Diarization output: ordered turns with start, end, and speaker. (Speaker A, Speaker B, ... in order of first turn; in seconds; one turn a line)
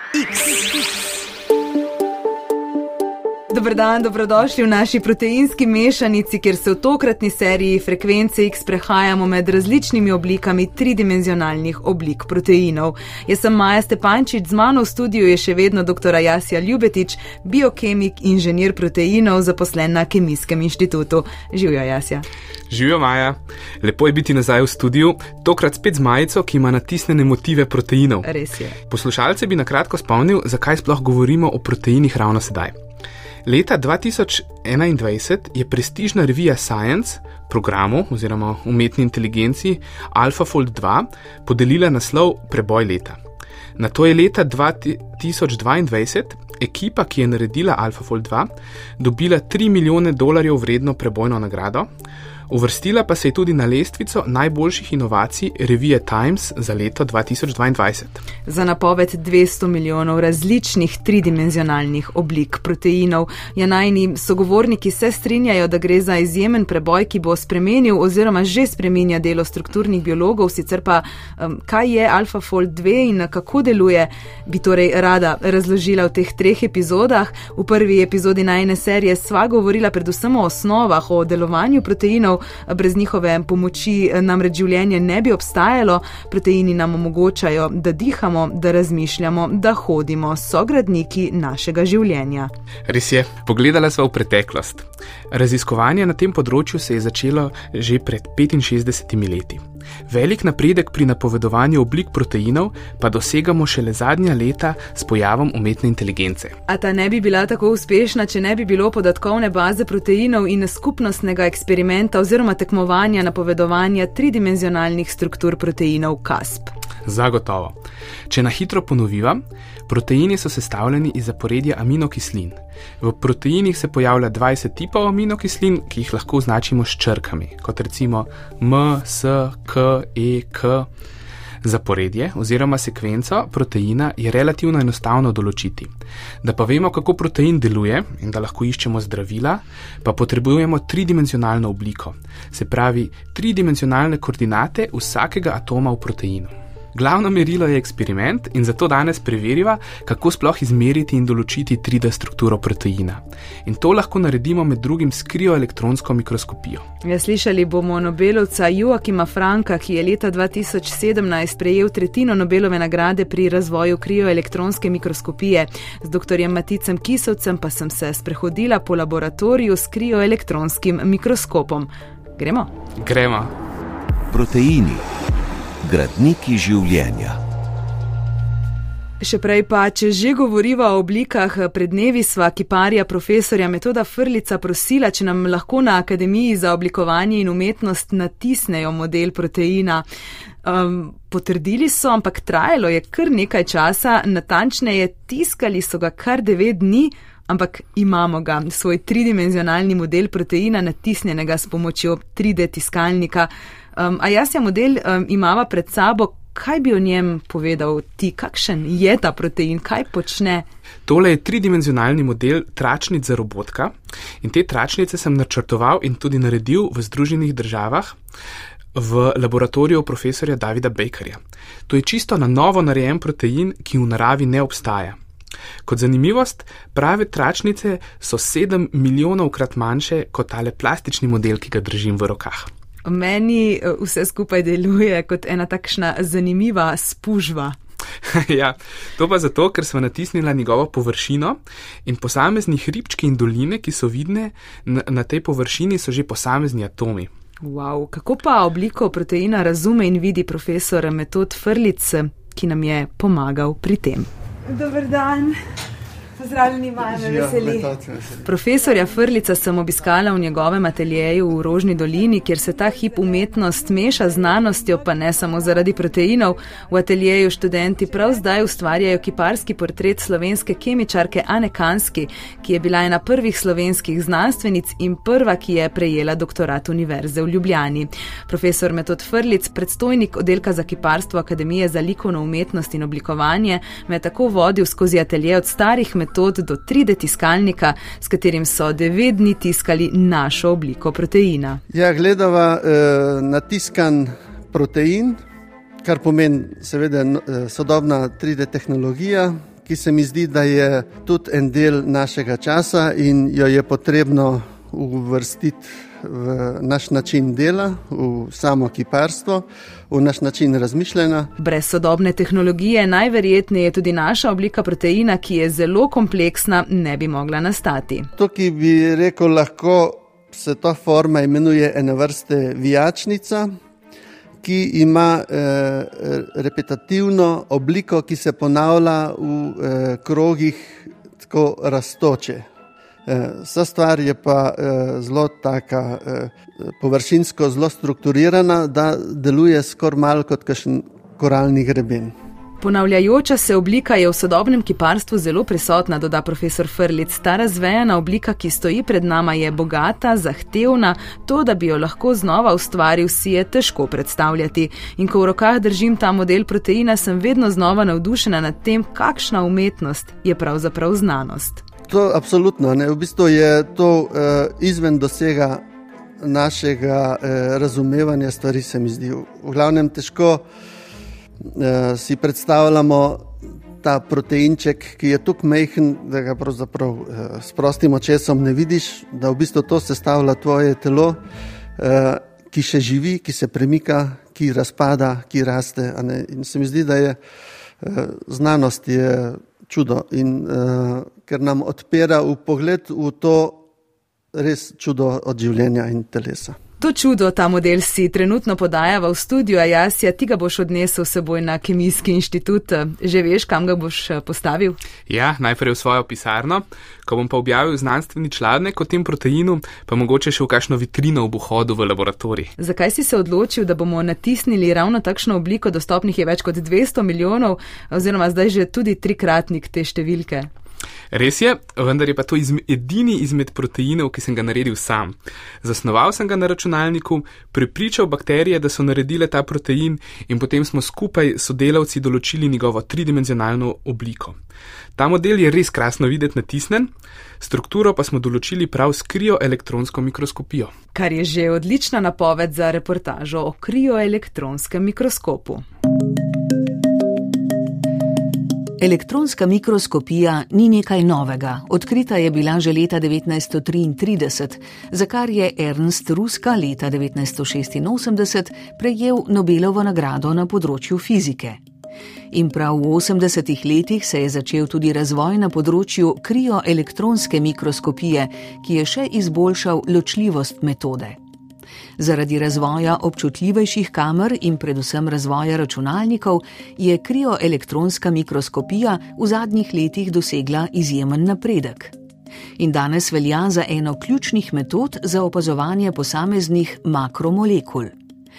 Speaker A: 0.1-1.0
Speaker A: 3.5-22.2
Speaker B: 22.7-28.3
Speaker A: 28.2-28.8
Speaker B: 28.9-32.7
Speaker B: 33.4-43.2
Speaker B: 43.8-51.9
Speaker B: 52.5-58.2
Speaker A: 58.5-92.5
Speaker B: 92.9-106.5
Speaker A: 106.7-116.7
Speaker B: 117.0-117.8
Speaker B: 118.3-130.9
Speaker B: 131.6-135.9
Speaker B: 136.4-156.8
Speaker A: 157.0-172.7
Speaker B: 173.0-173.5
Speaker C: 174.3-175.0
Speaker C: 175.8-177.4
Speaker A: 179.2-190.0
Speaker A: 190.6-210.7
Speaker B: 211.1-218.2
Speaker B: 218.9-225.2
Speaker B: 225.8-232.7
Speaker A: 233.0-237.8
Speaker B: 238.2-247.3
Speaker A: 247.6-255.6
Speaker A: 256.4-257.9
Speaker D: 257.0-258.5
Speaker A: 258.4-291.8
Speaker D: 291.9-295.4
Speaker D: 296.0-311.5
Speaker A: 311.6-318.3
Speaker D: 318.4-323.7
Speaker D: 324.6-332.6
Speaker D: 333.3-342.3
Speaker A: 342.8-361.8
Speaker D: 362.1-365.8
Speaker D: 366.4-370.6
Speaker D: 371.7-381.4
Speaker D: 382.0-387.4
Speaker D: 388.0-393.8
Speaker D: 394.5-396.8
Speaker A: 397.0-405.0
Speaker B: 405.3-412.7
Speaker A: 412.8-420.7
Speaker B: 421.3-434.6
Speaker B: 435.2-440.9
Speaker A: 441.1-445.8
Speaker E: 449.0-461.8
Speaker E: 462.5-471.4
Speaker E: 472.2-482.1
Speaker E: 482.8-488.1